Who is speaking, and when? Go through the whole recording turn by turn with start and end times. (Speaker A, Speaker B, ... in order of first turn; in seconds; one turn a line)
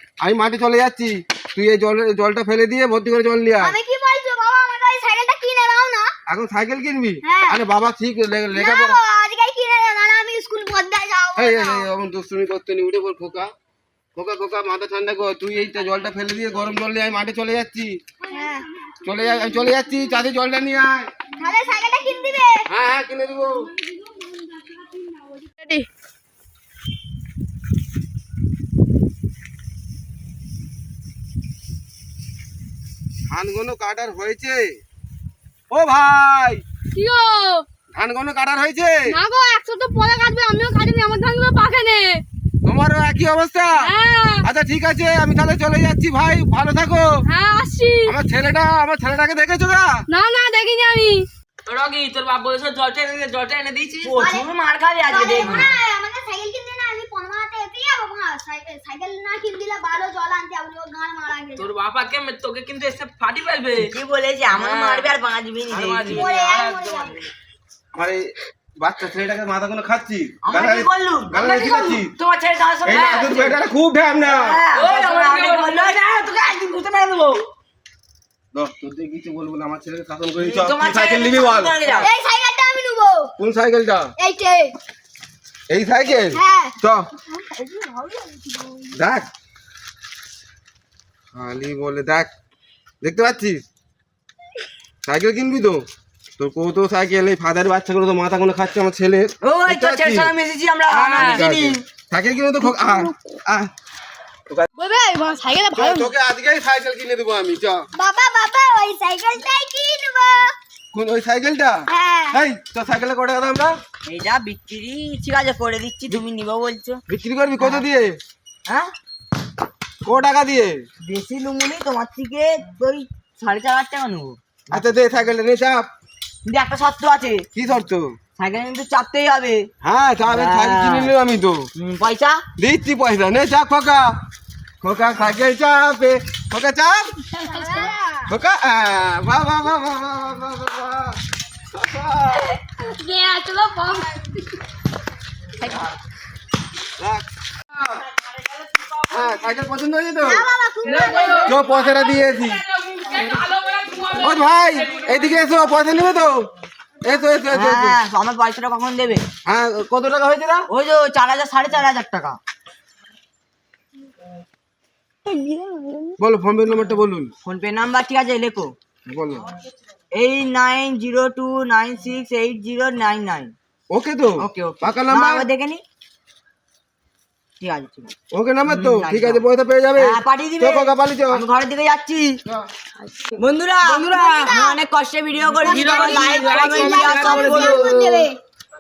Speaker A: 0.2-3.8
Speaker B: 3.6-6.1
Speaker A: 6.3-9.0
Speaker B: 7.2-7.6
Speaker B: 8.6-11.9
Speaker A: 11.4-13.5
Speaker A: 14.2-18.0
Speaker B: 18.3-18.7
Speaker A: 19.0-21.1
Speaker B: 21.4-22.7
Speaker A: 22.7-23.7
Speaker A: 33.3-34.7
Speaker A: 35.7-36.6
Speaker C: 37.0-37.6
Speaker A: 38.0-39.0
Speaker C: 39.1-42.2
Speaker A: 42.6-43.9
Speaker C: 43.8-44.4
Speaker A: 44.4-47.2
Speaker C: 47.3-48.1
Speaker A: 48.1-50.0
Speaker C: 50.1-54.1
Speaker D: 51.7-54.2
Speaker E: 54.0-55.7
Speaker B: 54.2-54.5
Speaker B: 55.1-61.7
Speaker D: 61.6-63.9
Speaker E: 63.8-66.3
Speaker D: 64.6-65.1
Speaker D: 65.7-67.2
Speaker B: 66.1-67.2
Speaker A: 68.0-72.2
Speaker E: 70.4-73.5
Speaker A: 72.8-74.6
Speaker E: 74.2-77.4
Speaker D: 74.7-76.2
Speaker A: 78.5-81.8
Speaker E: 80.4-82.1
Speaker B: 82.0-83.3
Speaker A: 83.4-84.1
Speaker B: 84.2-84.7
Speaker A: 85.7-87.1
Speaker B: 86.3-86.8
Speaker B: 87.3-88.9
Speaker A: 88.9-89.3
Speaker A: 91.3-92.3
Speaker A: 93.0-93.6
Speaker A: 95.0-95.8
Speaker A: 96.4-100.3
Speaker E: 99.4-101.8
Speaker C: 101.0-101.4
Speaker A: 101.1-103.7
Speaker C: 104.8-106.1
Speaker A: 105.8-107.9
Speaker B: 108.0-110.5
Speaker A: 110.9-113.8
Speaker B: 111.9-112.4
Speaker E: 114.0-117.0
Speaker A: 117.1-118.2
Speaker E: 118.7-118.9
Speaker A: 120.0-120.8
Speaker E: 121.0-124.8
Speaker A: 124.7-125.9
Speaker E: 126.5-127.5
Speaker A: 127.5-128.1
Speaker E: 128.4-129.7
Speaker A: 129.8-131.7
Speaker E: 130.3-131.1
Speaker E: 131.8-132.4
Speaker A: 132.6-134.1
Speaker A: 134.8-137.2
Speaker B: 137.4-138.2
Speaker C: 137.4-137.9
Speaker A: 138.3-141.2
Speaker A: 141.7-142.6
Speaker C: 142.8-144.2
Speaker A: 147.0-147.9
Speaker A: 149.1-150.4
Speaker B: 150.2-151.6
Speaker D: 150.8-151.5
Speaker C: 150.9-152.4
Speaker A: 151.4-152.6
Speaker D: 152.9-154.3
Speaker C: 153.0-154.2
Speaker A: 154.2-156.5
Speaker A: 157.0-158.0
Speaker E: 157.5-159.3
Speaker A: 159.4-160.7
Speaker E: 160.7-162.4
Speaker B: 165.3-166.1
Speaker A: 166.2-167.3
Speaker E: 167.4-168.7
Speaker A: 169.1-169.5
Speaker E: 170.1-173.5
Speaker A: 173.9-175.4
Speaker E: 174.4-175.8
Speaker E: 177.6-178.1
Speaker A: 178.3-181.4
Speaker E: 178.8-179.4
Speaker E: 180.0-182.4
Speaker E: 183.4-187.9
Speaker B: 183.9-184.8
Speaker D: 185.6-188.1
Speaker B: 185.6-188.4